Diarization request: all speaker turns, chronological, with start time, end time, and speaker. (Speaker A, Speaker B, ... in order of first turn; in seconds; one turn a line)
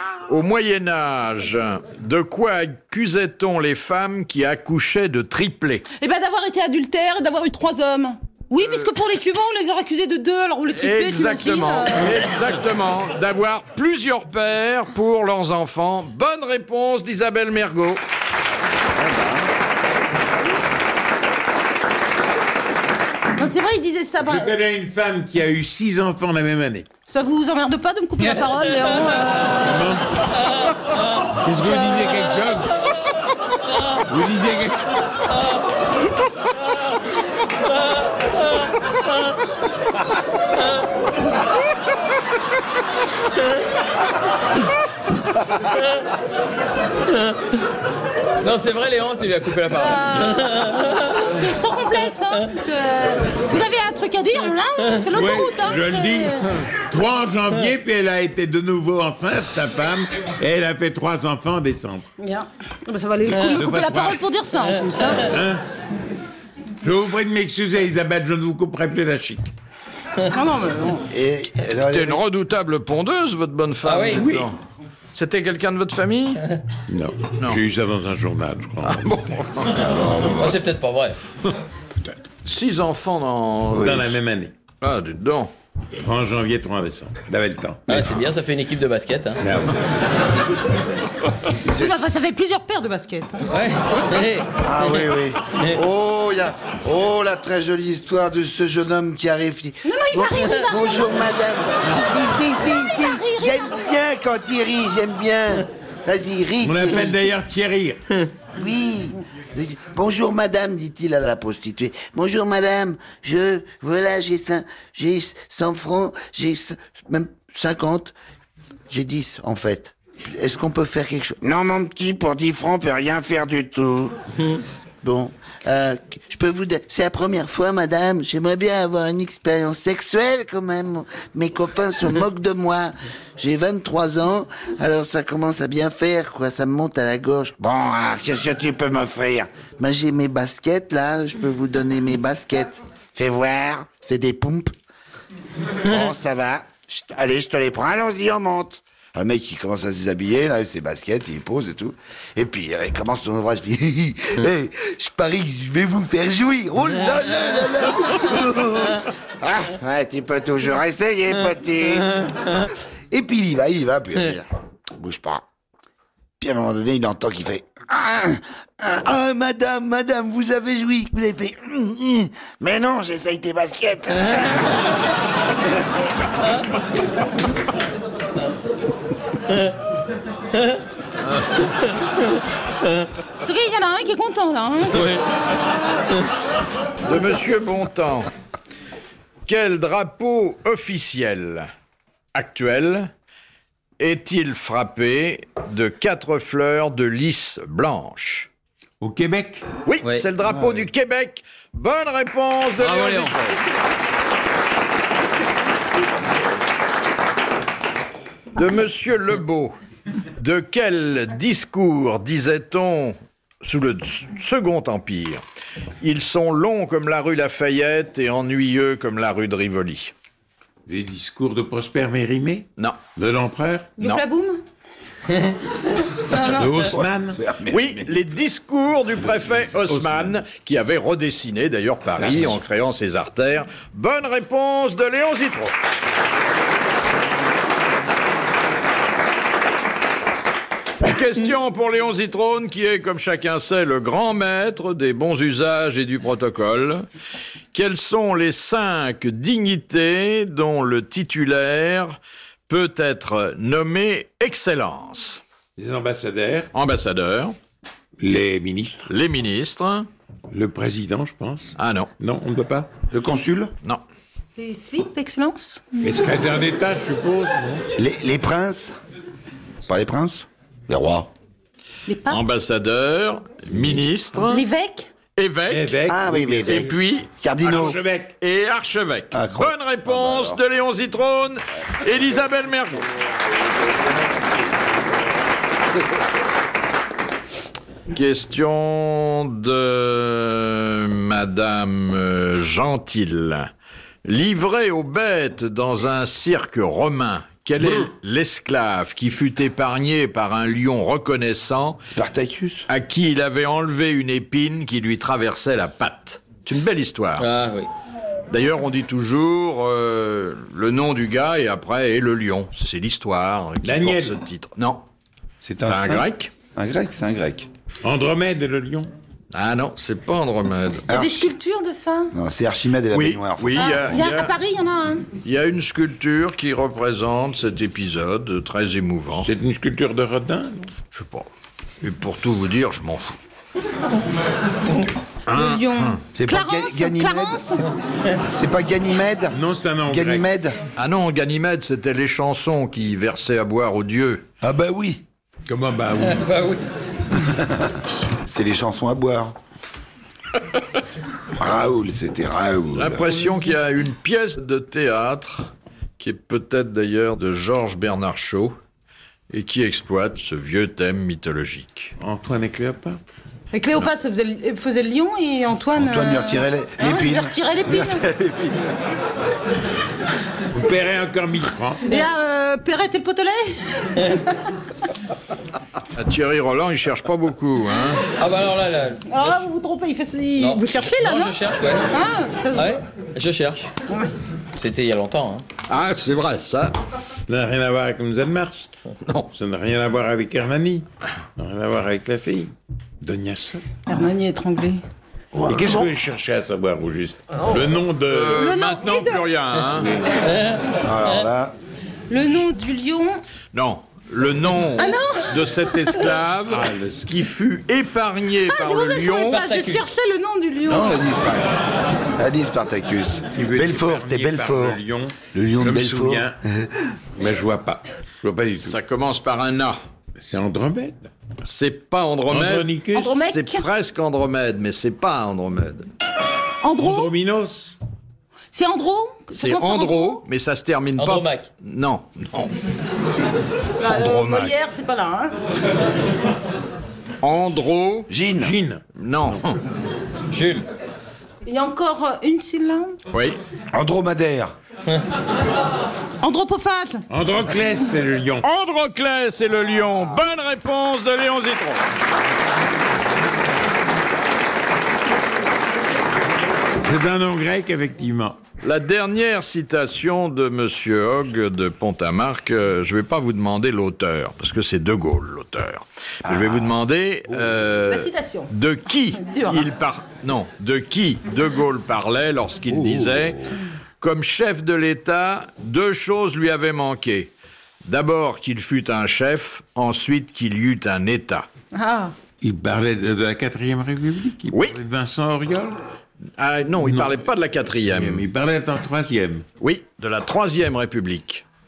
Speaker A: 0.3-5.8
Speaker B: 6.0-12.2
Speaker A: 8.6-8.9
Speaker A: 10.8-18.0
Speaker C: 19.0-19.4
Speaker B: 23.4-24.6
Speaker D: 24.2-26.9
Speaker B: 27.1-29.7
Speaker D: 29.6-30.1
Speaker B: 30.5-31.0
Speaker D: 31.4-32.7
Speaker D: 34.1-35.0
Speaker E: 48.4-51.2
Speaker B: 49.7-50.6
Speaker B: 51.1-56.5
Speaker D: 55.1-62.1
Speaker B: 62.2-65.3
Speaker D: 63.3-64.3
Speaker D: 65.1-65.6
Speaker D: 66.8-69.5
Speaker B: 70.3-71.1
Speaker C: 71.1-72.2
Speaker A: 71.9-74.6
Speaker E: 73.8-74.5
Speaker A: 75.1-76.4
Speaker D: 76.9-79.4
Speaker A: 78.8-79.8
Speaker C: 79.7-80.6
Speaker E: 80.3-81.2
Speaker A: 82.5-84.1
Speaker D: 83.7-84.5
Speaker A: 84.8-85.5
Speaker D: 86.0-88.1
Speaker E: 87.9-89.4
Speaker D: 89.4-89.8
Speaker C: 91.7-92.0
Speaker B: 91.7-93.5
Speaker E: 93.5-95.1
Speaker C: 94.6-107.2
Speaker B: 99.8-101.4
Speaker B: 102.5-103.9
Speaker D: 106.6-108.0
Speaker C: 108.6-118.2
Speaker C: 118.9-124.2
Speaker C: 125.0-144.7
Speaker C: 145.8-165.4
Speaker C: 166.4-174.8
Speaker B: 183.4-185.2
Speaker E: 184.9-185.2
Speaker A: 187.1-188.3
Speaker A: 189.5-191.7
Speaker A: 192.3-193.1
Speaker A: 194.0-198.5
Speaker D: 199.0-199.6
Speaker A: 199.9-203.6
Speaker C: 200.4-200.8
Speaker E: 202.8-203.4
Speaker A: 208.6-209.7
Speaker A: 210.4-215.4
Speaker A: 216.0-220.1
Speaker D: 220.9-223.9
Speaker B: 224.0-224.6
Speaker B: 226.3-226.7
Speaker D: 226.4-227.4
Speaker C: 226.8-228.2
Speaker A: 227.7-235.7
Speaker D: 229.9-230.4
Speaker D: 232.2-232.6
Speaker A: 241.0-247.1
Speaker A: 247.7-255.4
Speaker D: 255.8-256.7
Speaker A: 256.7-257.6
Speaker D: 258.2-259.1
Speaker A: 259.1-260.1
Speaker D: 260.5-262.9
Speaker A: 261.8-262.1
Speaker C: 263.1-263.7
Speaker B: 264.6-266.1
Speaker D: 266.0-267.9
Speaker C: 268.0-268.9
Speaker C: 269.9-271.3
Speaker B: 272.1-272.4
Speaker A: 272.3-274.6
Speaker B: 274.5-275.1
Speaker A: 275.4-276.0
Speaker D: 275.7-277.0
Speaker C: 276.1-278.0
Speaker A: 276.6-277.3
Speaker D: 277.6-278.4
Speaker A: 278.4-283.1
Speaker C: 279.3-280.6
Speaker A: 288.1-293.7
Speaker A: 294.2-302.0
Speaker C: 302.1-302.9
Speaker A: 302.9-307.5
Speaker E: 307.4-307.9
Speaker A: 308.5-315.0
Speaker D: 313.8-314.4
Speaker C: 315.6-317.7
Speaker A: 315.9-316.5
Speaker D: 318.0-319.1
Speaker A: 319.5-321.1
Speaker C: 321.1-321.5
Speaker B: 321.1-322.3
Speaker C: 322.3-324.3
Speaker A: 323.1-324.5
Speaker B: 323.7-325.3
Speaker A: 325.4-329.5
Speaker D: 329.4-330.9
Speaker A: 331.1-331.5
Speaker A: 332.0-333.4
Speaker A: 335.5-336.2
Speaker B: 335.5-337.8
Speaker C: 336.4-337.8
Speaker C: 338.5-340.8
Speaker D: 339.5-340.5
Speaker A: 341.0-344.4
Speaker C: 344.6-345.2
Speaker D: 345.7-346.6
Speaker E: 346.4-346.8
Speaker C: 347.6-347.9
Speaker C: 348.5-349.6
Speaker C: 351.6-353.4
Speaker A: 352.9-358.8
Speaker A: 359.5-362.1
Speaker D: 362.2-363.2
Speaker B: 363.7-368.3
Speaker C: 366.0-368.9
Speaker D: 370.7-372.1
Speaker B: 372.1-374.6
Speaker A: 376.2-378.2
Speaker E: 378.4-379.6
Speaker B: 379.3-383.0
Speaker E: 380.6-382.1
Speaker E: 382.7-383.9
Speaker E: 384.7-385.7
Speaker A: 385.9-387.0
Speaker D: 387.5-388.9
Speaker D: 389.5-393.9
Speaker B: 394.1-395.0
Speaker D: 395.5-398.7
Speaker A: 398.3-400.1
Speaker B: 398.5-399.5
Speaker E: 400.4-401.0
Speaker C: 401.0-401.8
Speaker B: 402.3-403.4
Speaker A: 403.7-409.6
Speaker B: 405.0-406.2
Speaker D: 406.7-407.3
Speaker B: 408.7-411.2
Speaker E: 409.4-410.1
Speaker C: 410.9-411.8
Speaker C: 412.4-415.0
Speaker D: 413.5-416.6
Speaker C: 415.5-417.1
Speaker D: 417.4-419.0
Speaker A: 418.9-420.0
Speaker D: 420.4-421.3
Speaker A: 421.6-426.1
Speaker D: 422.5-423.4
Speaker B: 423.1-423.9
Speaker B: 426.8-427.3
Speaker D: 427.0-427.9
Speaker B: 428.7-430.4
Speaker A: 429.6-432.7
Speaker E: 431.2-431.7
Speaker B: 434.0-435.5
Speaker A: 434.0-434.7
Speaker A: 437.4-438.3
Speaker C: 438.3-438.8
Speaker D: 438.6-439.6
Speaker A: 439.2-439.8
Speaker E: 440.5-440.9
Speaker B: 441.7-443.2
Speaker A: 443.3-443.6
Speaker C: 443.9-444.7
Speaker B: 446.4-447.3
Speaker D: 447.3-448.6
Speaker A: 448.6-452.0
Speaker D: 457.0-458.6
Speaker A: 458.8-477.5
Speaker C: 466.4-466.9
Speaker B: 468.1-468.7
Speaker B: 469.4-469.9
Speaker C: 472.9-473.6
Speaker A: 478.1-481.7
Speaker B: 481.9-482.3
Speaker D: 482.6-486.0
Speaker A: 486.6-488.5
Speaker D: 487.0-487.4
Speaker D: 488.1-489.6
Speaker A: 489.8-491.6